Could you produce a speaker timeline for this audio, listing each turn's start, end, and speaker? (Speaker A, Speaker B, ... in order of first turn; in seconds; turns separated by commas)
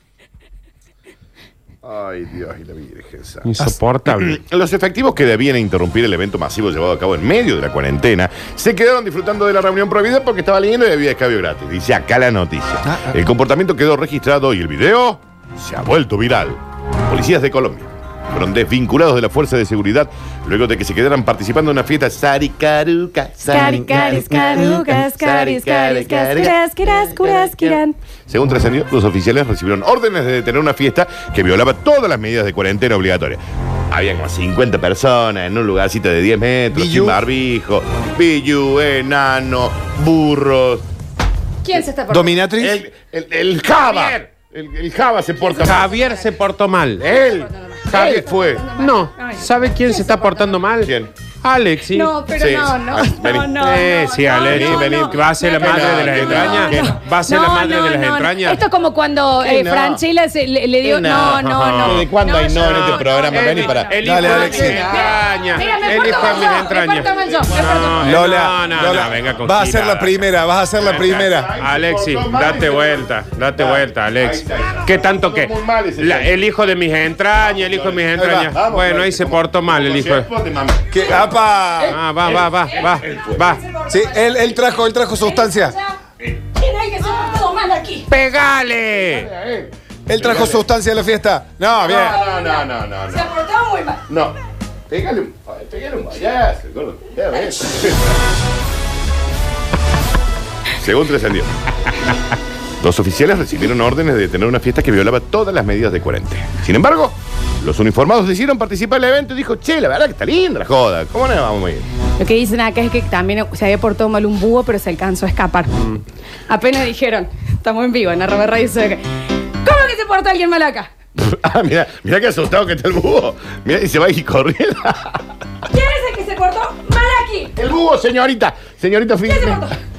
Speaker A: 1.8-3.5, Speaker B: 3.4-4.4, Speaker A: 4.0-40.9, Speaker C: 12.8-13.2, Speaker D: 23.4-27.9, Speaker C: 36.7-37.2, Speaker D: 41.6-42.4, Speaker C: 42.1-42.8, Speaker A: 42.6-45.9, Speaker B: 43.9-44.2, Speaker D: 45.4-46.3, Speaker B: 45.6-47.1, Speaker A: 47.0-48.7, Speaker D: 47.0-50.6, Speaker B: 47.9-52.1, Speaker A: 50.8-51.1, Speaker D: 51.9-68.2, Speaker A: 52.3-53.6, Speaker B: 53.6-58.6, Speaker A: 54.4-56.9, Speaker A: 59.4-60.0, Speaker A: 60.8-64.3, Speaker B: 61.2-70.2, Speaker C: 64.0-65.0, Speaker A: 64.9-68.2, Speaker C: 68.0-71.5, Speaker A: 70.8-76.4, Speaker B: 70.9-80.3, Speaker A: 77.4-83.4, Speaker C: 78.2-78.5, Speaker C: 80.9-82.0, Speaker B: 81.9-83.6, Speaker D: 83.0-86.0, Speaker C: 83.9-85.8, Speaker D: 86.5-88.1, Speaker B: 88.1-89.3, Speaker A: 89.0-90.7, Speaker C: 90.1-92.2, Speaker A: 91.7-93.3, Speaker D: 91.9-94.0, Speaker A: 94.1-94.3, Speaker A: 94.9-98.2, Speaker A: 100.8-101.5, Speaker A: 102.8-111.9, Speaker D: 112.2-120.9, Speaker A: 121.2-125.2, Speaker D: 125.7-127.5, Speaker A: 127.5-129.7, Speaker D: 129.2-129.8